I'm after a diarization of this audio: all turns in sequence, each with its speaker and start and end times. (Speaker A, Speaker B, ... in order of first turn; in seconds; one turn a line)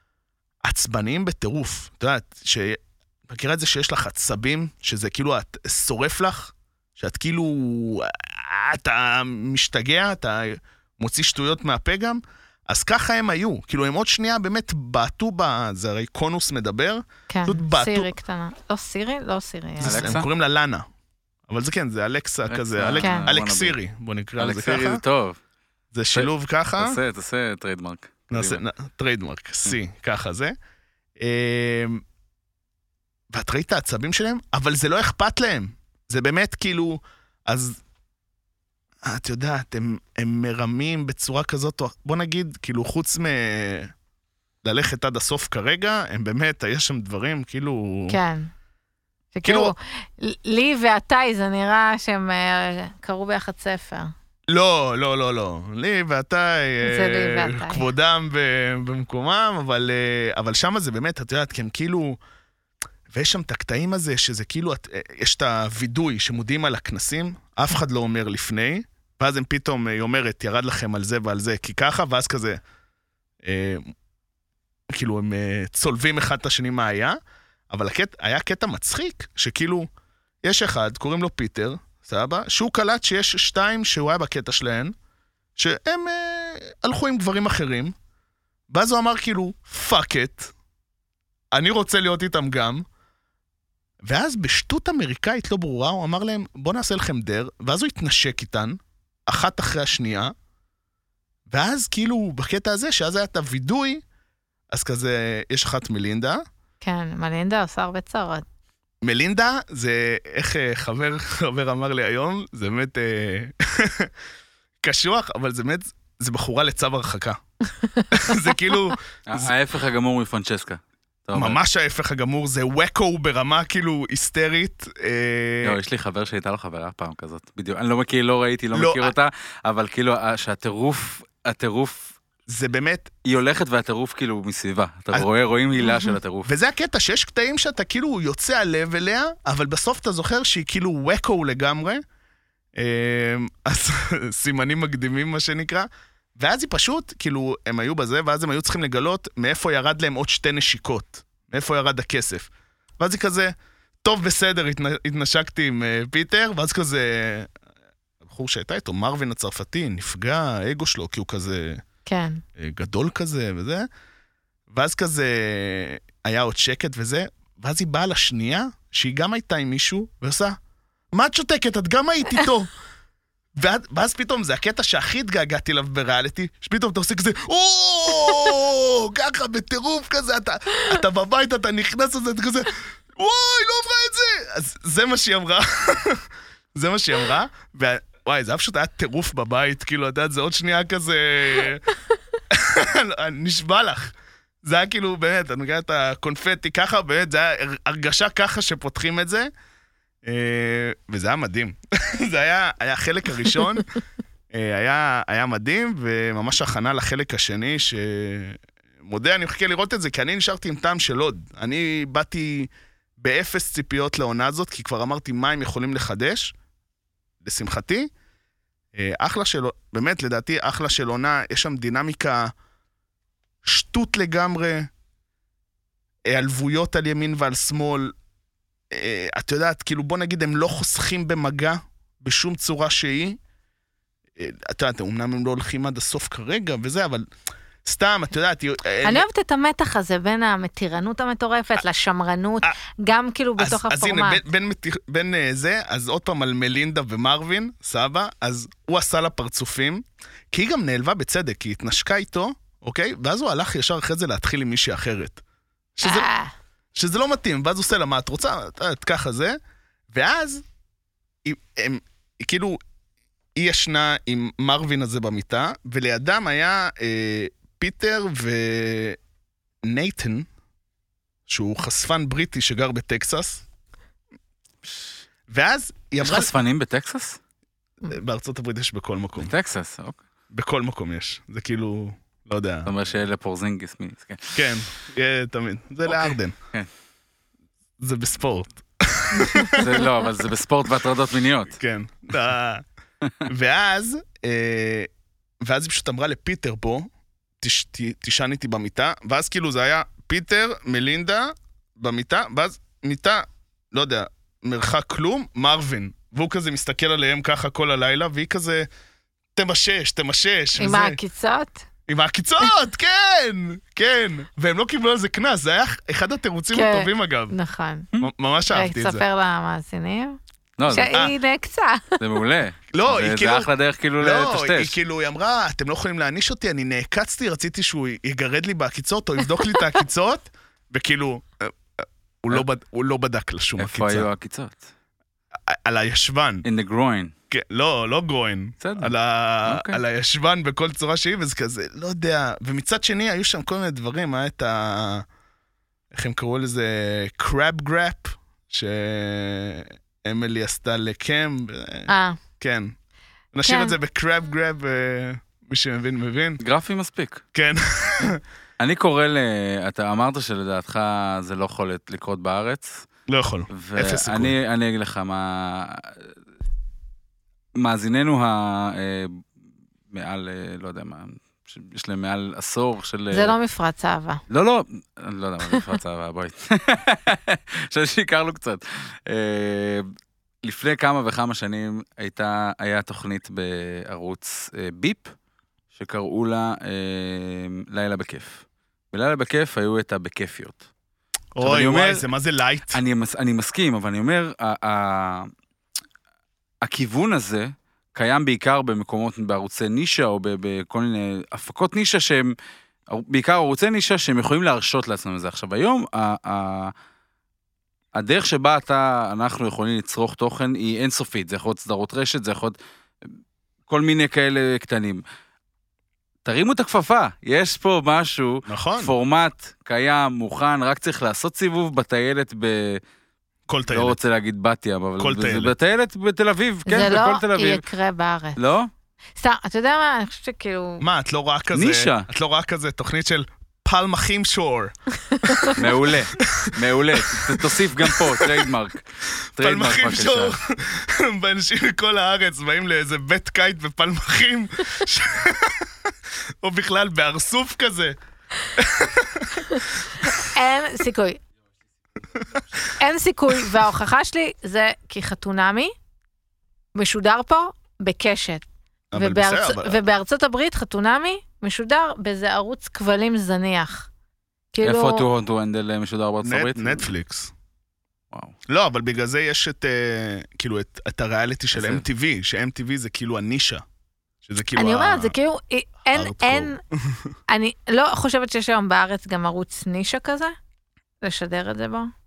Speaker A: 0.6-18.1
Speaker B: 17.3-20.1
Speaker A: 19.8-20.8
Speaker C: 19.8-20.3
Speaker A: 21.5-25.0
Speaker C: 22.5-23.8
Speaker B: 23.0-23.3
Speaker C: 24.4-25.4
Speaker A: 25.9-27.0
Speaker C: 26.1-28.6
Speaker A: 28.3-30.5
Speaker A: 31.2-32.0
Speaker A: 33.3-37.8
Speaker A: 39.0-43.9
Speaker A: 44.6-48.2
Speaker B: 48.1-48.5
Speaker B: 49.3-54.1
Speaker A: 49.4-49.7
Speaker A: 54.5-62.2
Speaker B: 56.8-57.9
Speaker A: 63.1-72.6
Speaker A: 73.4-73.9
Speaker A: 74.9-77.2
Speaker A: 77.7-79.9
Speaker A: 80.4-84.9
Speaker A: 85.6-87.9
Speaker A: 88.7-90.5
Speaker A: 91.5-92.8
Speaker A: 94.0-98.8
Speaker A: 99.3-100.3
Speaker A: 101.5-104.0
Speaker A: 104.7-106.4
Speaker B: 106.8-108.4
Speaker A: 109.0-114.1
Speaker A: 114.8-117.4
Speaker B: 117.8-118.8
Speaker A: 118.1-119.5
Speaker C: 119.3-121.6
Speaker A: 121.3-125.8
Speaker C: 125.6-132.1
Speaker A: 128.7-129.1
Speaker A: 132.5-133.2
Speaker C: 133.2-136.5
Speaker A: 136.4-142.0
Speaker A: 142.8-157.5
Speaker A: 158.2-161.8
Speaker B: 162.1-162.4
Speaker A: 162.6-163.9
Speaker A: 164.7-170.6
Speaker A: 171.1-172.7
Speaker A: 173.5-191.9
Speaker A: 192.5-199.5
Speaker A: 200.2-203.9
Speaker A: 204.5-216.5
Speaker A: 217.4-218.1
Speaker A: 218.9-222.5
Speaker A: 223.6-224.9
Speaker A: 226.3-228.2
Speaker A: 228.9-233.4
Speaker A: 234.3-237.3
Speaker A: 237.8-239.2
Speaker B: 239.0-244.4
Speaker A: 243.6-255.4
Speaker A: 255.9-256.3
Speaker B: 256.0-256.5
Speaker A: 256.9-259.6
Speaker A: 260.1-260.6
Speaker A: 261.4-262.8
Speaker A: 263.6-269.2
Speaker A: 269.8-270.5
Speaker A: 271.5-273.6
Speaker A: 275.5-276.5
Speaker C: 276.2-277.4
Speaker A: 278.0-279.5
Speaker C: 279.4-280.2
Speaker A: 280.5-282.9
Speaker C: 282.9-284.8
Speaker A: 284.5-286.5
Speaker C: 286.1-286.9
Speaker A: 288.0-290.0
Speaker B: 289.4-289.7
Speaker C: 289.7-291.8
Speaker A: 291.7-292.8
Speaker A: 293.4-295.1
Speaker A: 295.6-297.1
Speaker A: 297.6-308.9
Speaker A: 309.6-311.2
Speaker B: 310.8-311.8
Speaker A: 312.1-317.5
Speaker B: 316.7-318.1
Speaker A: 318.2-319.2
Speaker B: 318.7-320.4
Speaker C: 320.8-321.2
Speaker B: 320.9-322.2
Speaker C: 322.2-324.9
Speaker A: 322.9-334.3
Speaker C: 333.8-334.9
Speaker A: 335.6-336.6
Speaker C: 336.6-337.3
Speaker A: 337.5-345.2
Speaker C: 338.8-339.1
Speaker C: 339.6-340.0
Speaker A: 346.1-352.9
Speaker B: 352.1-352.4
Speaker A: 353.5-356.6
Speaker B: 353.6-354.0
Speaker C: 356.6-357.4
Speaker A: 357.5-358.4
Speaker C: 358.8-363.1
Speaker A: 363.3-364.5
Speaker C: 363.7-366.2
Speaker C: 367.8-369.4
Speaker C: 370.1-373.6
Speaker B: 373.3-374.4
Speaker C: 374.5-380.1
Speaker C: 380.6-385.3
Speaker C: 385.9-390.9
Speaker A: 391.5-393.0
Speaker C: 391.6-392.2
Speaker C: 392.9-395.5
Speaker C: 396.8-402.5
Speaker C: 403.1-406.9
Speaker C: 408.1-412.8
Speaker C: 413.9-415.2
Speaker C: 416.4-423.0
Speaker A: 418.7-419.1
Speaker A: 423.7-424.2
Speaker C: 423.9-427.8
Speaker A: 425.2-425.7
Speaker B: 426.9-428.6
Speaker C: 428.6-428.9
Speaker B: 429.4-431.0
Speaker A: 431.0-434.9
Speaker C: 431.7-432.3
Speaker B: 435.3-435.7
Speaker A: 435.4-435.7
Speaker C: 435.7-439.0
Speaker A: 436.4-438.7
Speaker C: 439.6-440.6
Speaker A: 439.6-448.2
Speaker A: 448.7-450.3
Speaker B: 449.6-451.4
Speaker B: 453.0-455.9
Speaker B: 456.9-464.1
Speaker A: 459.1-460.0
Speaker B: 464.7-465.2
Speaker C: 464.8-467.1
Speaker A: 466.4-467.5
Speaker A: 468.7-473.8
Speaker C: 471.7-472.0
Speaker A: 474.4-475.3
Speaker B: 474.7-476.8
Speaker A: 476.1-477.3
Speaker B: 477.5-480.5
Speaker B: 481.2-482.1